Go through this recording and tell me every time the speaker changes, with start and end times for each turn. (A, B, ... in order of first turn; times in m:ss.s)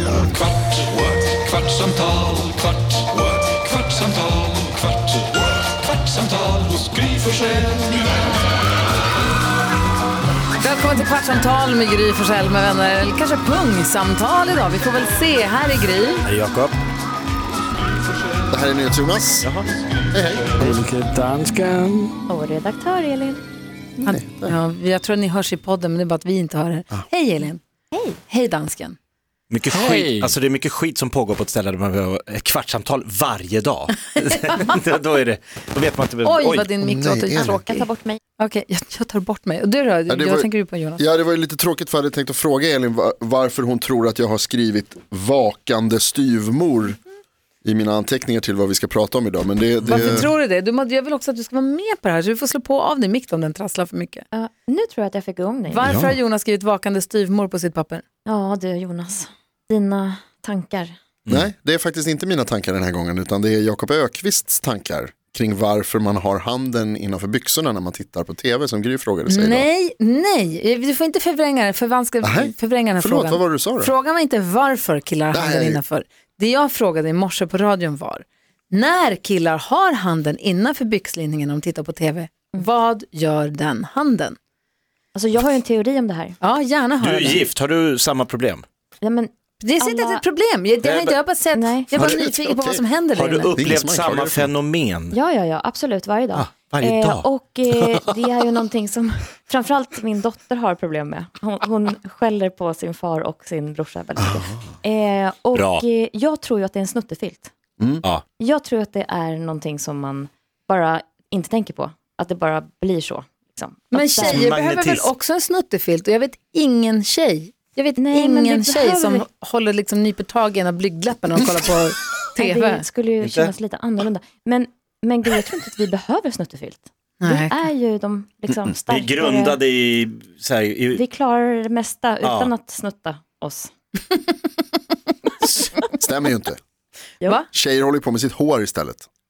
0:00.4-0:04.5 A
0:06.0-0:07.4 A
0:10.6-0:16.2 B
0:16.2-0:16.7 C
0:18.5-0:19.4 D
0:19.4-0:19.7 C
0:20.1-0:20.5 D
0:20.6-0:22.2 E
0:22.3-0:23.4 F
0:24.0-0:27.6 B
0:24.1-0:24.5 D
0:27.9-0:28.2 F
0:28.3-0:29.0 B
0:29.5-0:36.7 C
0:29.7-0:30.3 E
0:34.2-0:34.7 B
0:36.2-0:37.9 B
0:36.8-0:37.7 D
0:37.7-0:38.2 F
0:38.4-0:41.0 B
0:40.1-0:47.0 D
0:47.6-0:50.3 D
0:49.8-0:54.2 B
0:54.3-0:55.9 F
0:55.7-0:58.0 B
0:55.8-0:56.1 D
0:58.2-1:00.9 F
1:01.3-1:09.7 D
1:09.3-1:24.4 B
1:12.2-1:13.9 D
1:15.3-1:15.8 D
1:25.1-1:26.4 F
1:26.4-1:27.4 B
1:27.0-1:28.6 C
1:29.0-1:30.2 F
1:29.6-1:33.5 B
1:30.8-1:31.2 C
1:31.5-1:32.1 F
1:32.0-1:32.8 D
1:33.1-1:35.2 C
1:33.6-1:34.5 D
1:35.1-1:47.5 F
1:36.3-1:37.8 C
1:44.2-1:44.7 D
1:45.5-1:45.8 C
1:48.4-1:54.5 F
1:53.9-2:02.8 B
1:54.2-1:55.1 C
1:58.0-1:59.2 F
2:02.3-2:09.6 F
2:03.2-2:03.5 C
2:07.2-2:07.5 B
2:08.9-2:11.0 C
2:10.9-2:13.7 F
2:12.2-2:12.5 C
2:16.0-2:16.6 D
2:17.5-2:19.1 D